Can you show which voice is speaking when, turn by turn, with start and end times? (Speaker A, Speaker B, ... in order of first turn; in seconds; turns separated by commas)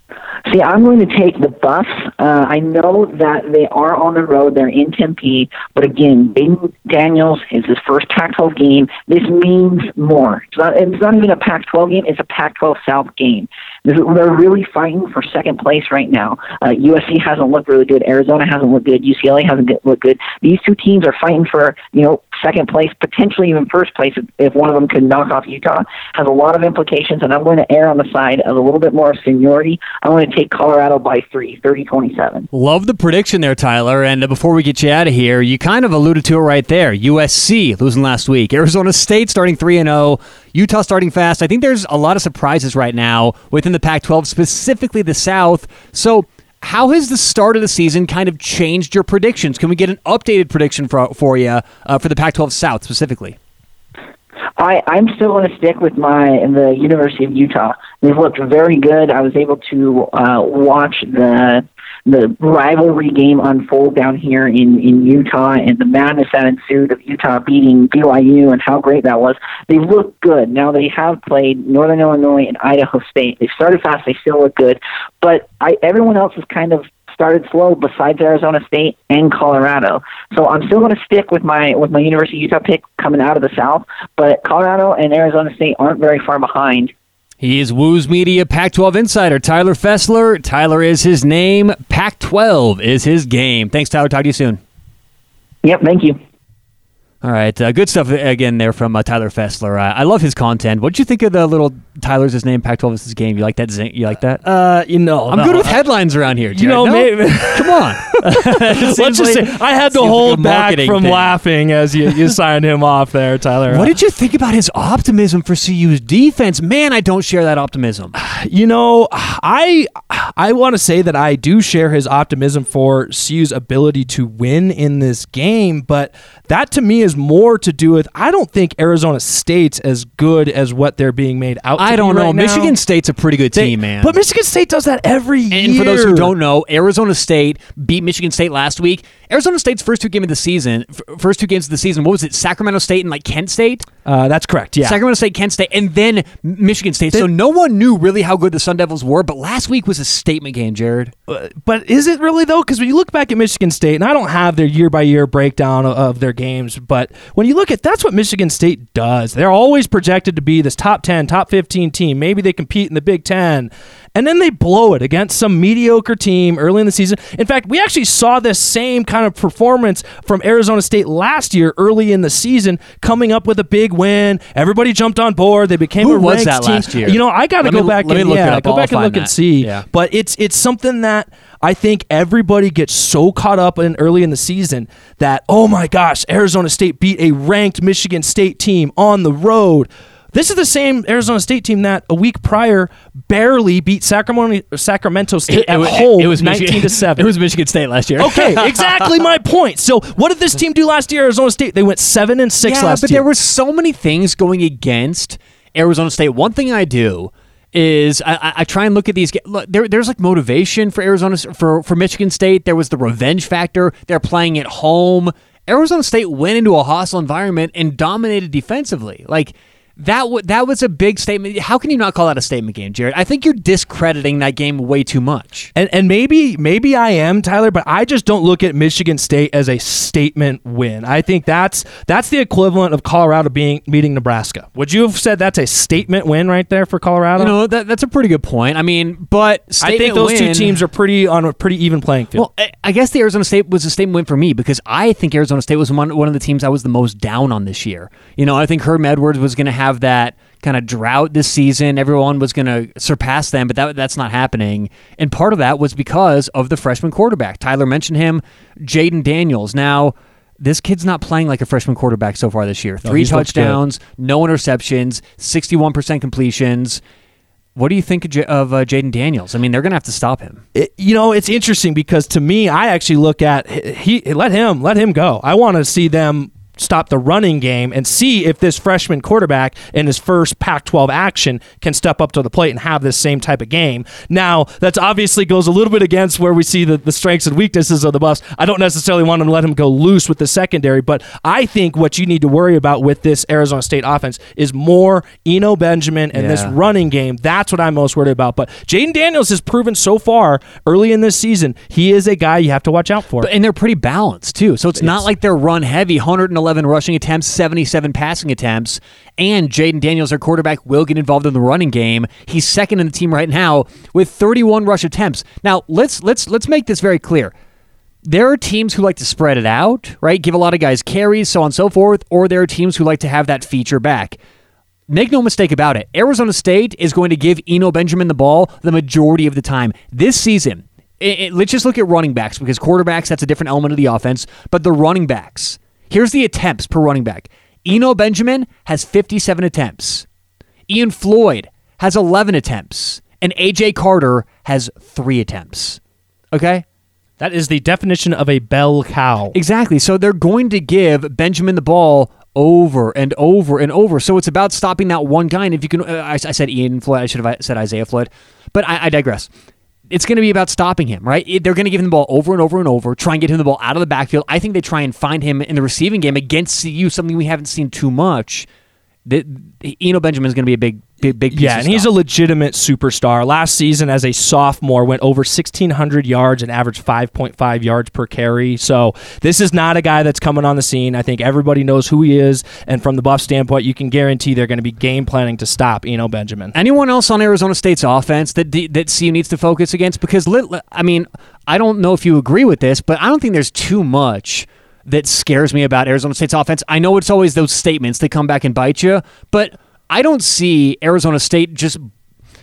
Speaker A: 0.5-32.5, Speaker B: 32.5-53.4, Speaker A: 54.6-86.9, Speaker B: 87.4-94.6, Speaker A: 95.6-96.2, Speaker B: 97.2-104.5, Speaker C: 104.5-105.8, Speaker B: 105.3-111.4, Speaker C: 106.5-114.0, Speaker B: 113.7-118.2, Speaker C: 118.2-132.8, Speaker B: 131.8-134.2, Speaker C: 133.6-136.3, Speaker B: 135.5-143.9, Speaker C: 144.1-145.0, Speaker B: 144.8-151.1, Speaker C: 151.3-197.3, Speaker B: 176.0-179.8, Speaker B: 195.5-199.1, Speaker C: 198.2-203.2, Speaker B: 202.6-225.7, Speaker C: 225.8-237.5, Speaker B: 237.4-240.8, Speaker C: 239.8-242.5, Speaker B: 242.3-267.0, Speaker C: 263.0-263.8, Speaker B: 267.8-270.6, Speaker C: 270.8-303.5, Speaker B: 296.3-296.8, Speaker B: 303.4-317.5, Speaker C: 305.0-305.2, Speaker B: 318.2-324.4, Speaker B: 325.1-340.2, Speaker B: 340.9-346.0, Speaker B: 346.5-346.8, Speaker C: 347.4-349.6, Speaker B: 349.5-359.5, Speaker B: 360.1-368.7, Speaker B: 369.2-372.1, Speaker C: 371.5-386.7, Speaker B: 386.7-402.1